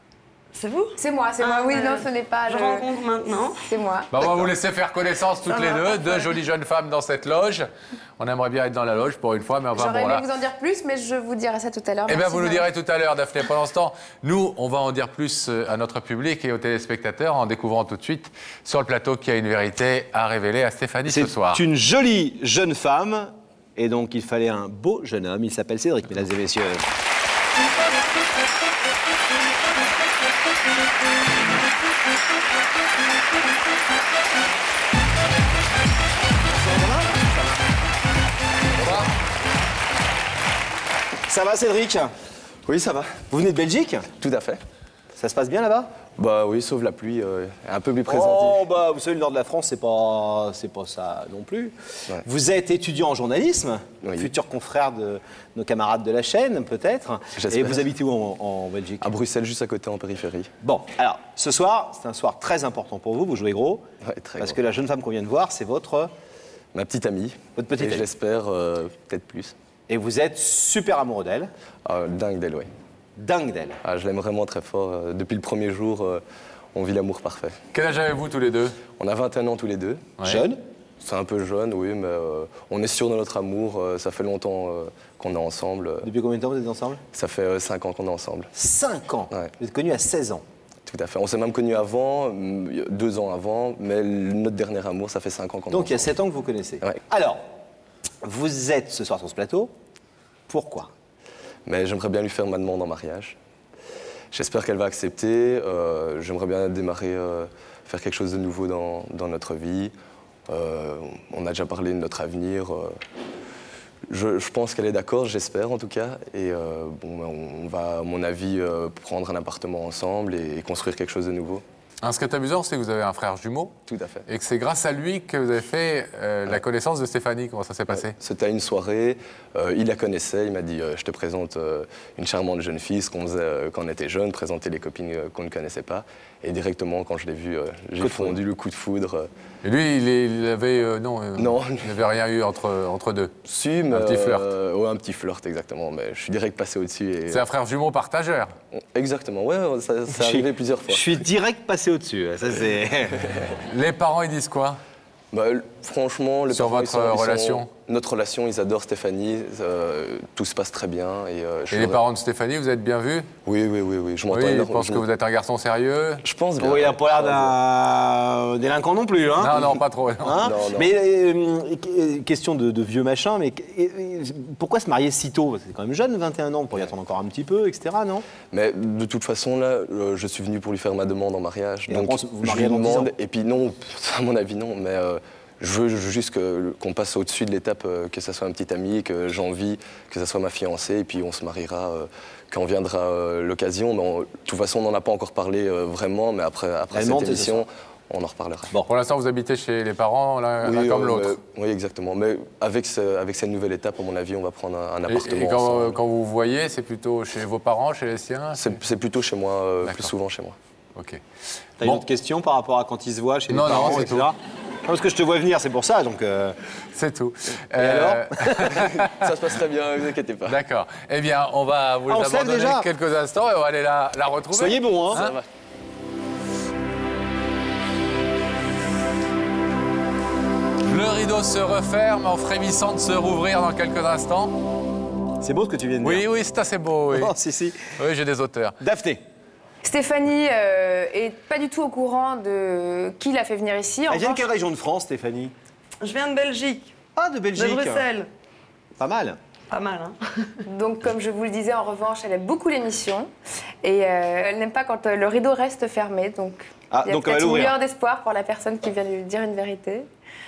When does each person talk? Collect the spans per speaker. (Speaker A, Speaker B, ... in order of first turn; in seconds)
Speaker A: 0.5-3.6, 5.4-6.3, 246.0-246.9, 247.6-248.3, 249.7-250.6
Speaker B: 1.0-2.9, 3.6-4.1, 9.7-12.7, 239.8-244.5, 250.7-253.3, 253.8-260.1
Speaker C: 4.1-10.3, 12.1-21.6, 38.8-39.1, 77.7-78.8, 80.2-80.5, 122.0-123.7, 124.3-128.2, 139.6-143.3, 143.9-144.5, 147.3-148.5, 153.3-154.8, 156.5-157.7, 161.7-163.3, 164.3-166.2, 169.4-170.4, 198.9-201.4, 205.1-208.7, 209.8-210.1, 210.9-211.2, 213.5-214.3, 216.9-219.3, 220.5-225.4, 230.8-234.6, 236.0-237.4, 237.9-238.8
Speaker D: 21.1-26.8, 36.5-37.6, 41.2-42.1, 43.3-44.1, 45.2-45.9, 48.1-59.1, 60.6-63.9, 64.4-66.1, 67.6-68.0, 69.9-71.5, 73.2-73.8, 80.2-80.6, 86.0-87.0, 88.5-90.4, 95.7-97.4, 98.2-99.7, 100.5-100.9, 138.0-138.4, 150.1-153.2, 166.6-178.3, 181.9-183.1, 196.9-197.6, 211.8-216.6, 217.8-218.7, 222.1-222.9, 224.5-225.2, 235.4-236.3, 237.1-237.8, 238.8-239.2, 244.1-245.5, 247.2-248.1, 249.0-249.4, 256.9-257.8
Speaker E: 42.7-43.2, 44.2-44.6, 46.2-48.7, 54.0-54.3, 57.4-57.8, 59.0-60.5, 64.0-64.6, 66.7-69.5, 71.8-72.7, 73.8-76.2, 76.8-77.6, 79.0-80.1, 81.0-86.1, 87.1-88.5, 90.9-96.1, 101.7-103.4, 104.3-109.9, 110.5-113.0, 114.1-121.6, 123.9-124.3, 127.9-139.3, 141.3-141.9, 143.4-147.4, 148.9-151.1, 155.3-162.0, 163.4-165.1, 166.2-167.6, 170.4-170.9, 178.5-198.7, 200.6-206.0, 208.5-210.6, 218.7-220.6, 225.1-225.4